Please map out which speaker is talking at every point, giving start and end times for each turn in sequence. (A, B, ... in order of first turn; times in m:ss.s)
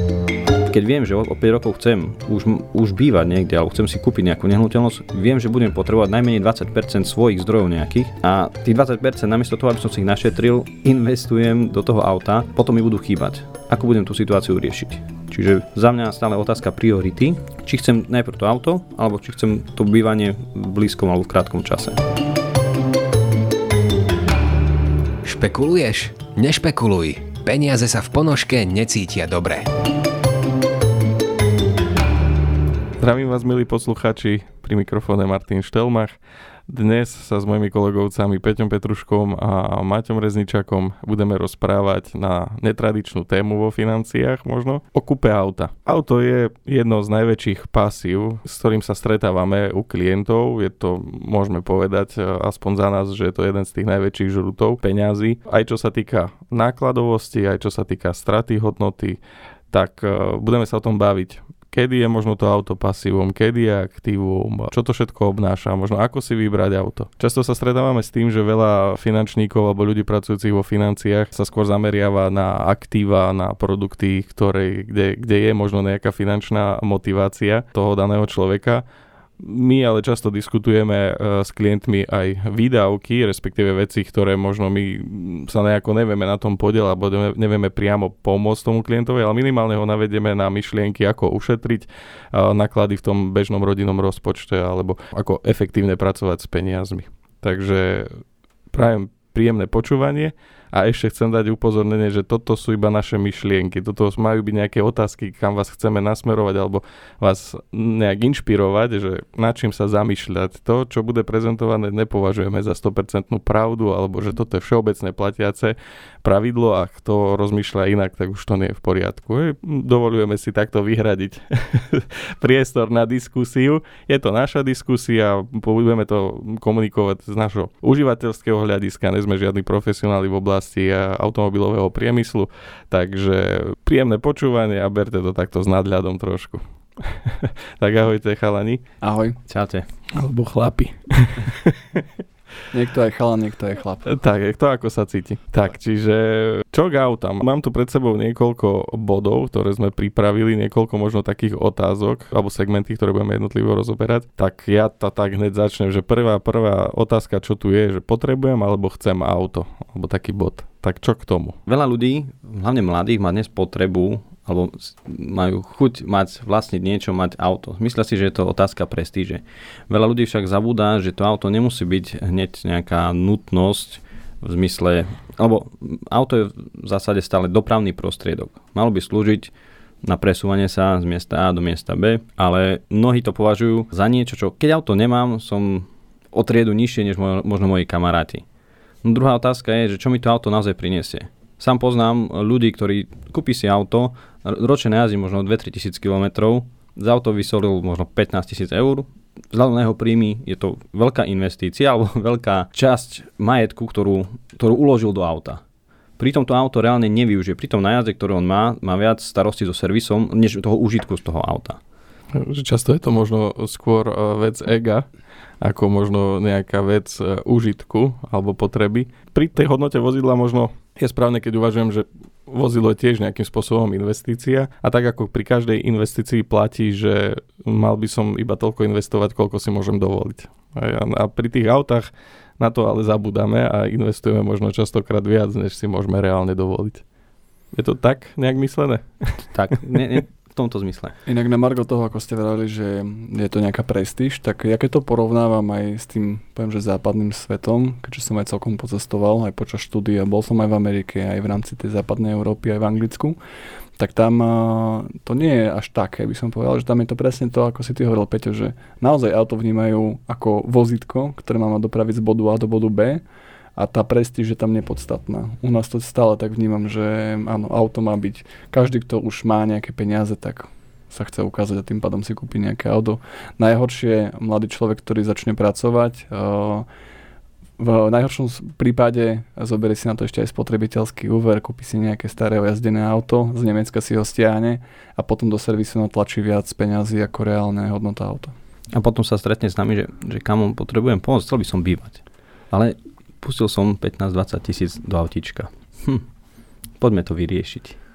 0:00.7-0:22.0 A
0:25.2-0:29.7 B
0:33.0-0:36.1 C
0:36.7-0:59.2 C
0:59.7-1:18.8 C
1:19.4-2:18.8 C
2:19.0-2:19.4 D
2:19.5-2:19.9 A
2:20.1-2:22.0 C
2:22.7-2:24.0 D
2:24.0-2:41.6 C
2:41.6-2:59.5 A
3:00.0-3:08.4 A
3:09.0-3:25.6 A
3:26.2-3:31.8 A
3:32.3-3:35.0 C
3:35.6-3:57.0 C
3:57.7-4:00.0 C
3:59.5-4:01.2 A
4:01.3-4:13.4 D
4:14.0-4:23.2 D
4:23.8-4:36.8 D
4:37.8-4:48.5 D
4:48.9-4:56.2 A
4:57.0-4:58.0 A